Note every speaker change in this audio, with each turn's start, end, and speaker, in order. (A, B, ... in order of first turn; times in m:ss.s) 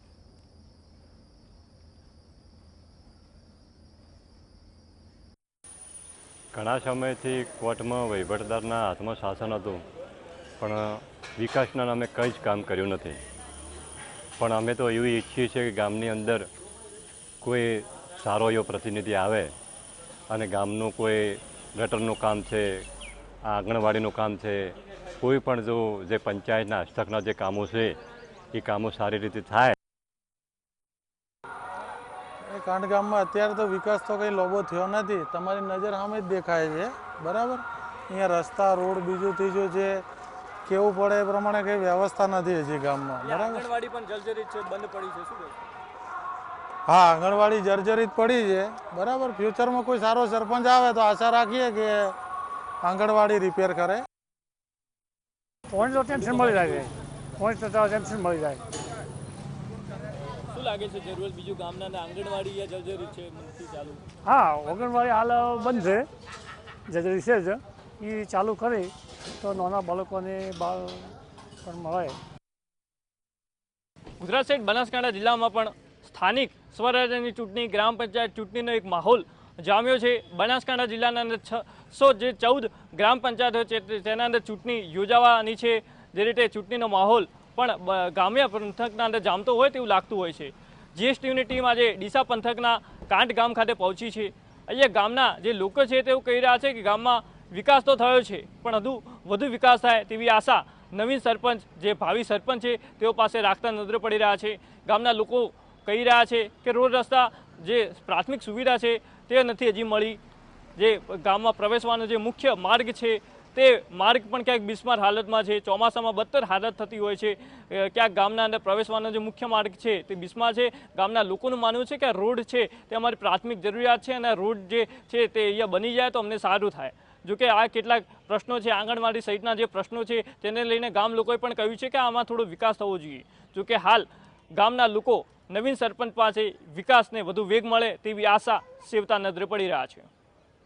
0:06.5-0:09.8 A
0:10.6-0:13.2 A
0:14.4-0:16.5 A
0:17.4-0:19.5 A
0:20.3-0:22.9 A
0:23.4-0:28.0 A
0:28.5-0:29.8 A
0:32.5-0:40.0 B
0:40.6-0:43.6 B
0:43.2-0:45.6 C
0:46.8-0:52.2 B
0:52.8-0:54.0 B
0:55.7-0:58.6 D
0:56.2-0:56.7 C
1:00.5-1:04.0 C
1:04.2-1:06.1 D
1:06.9-1:11.1 D
1:11.6-1:12.2 D
1:14.2-1:50.2 C
1:50.8-2:20.1 C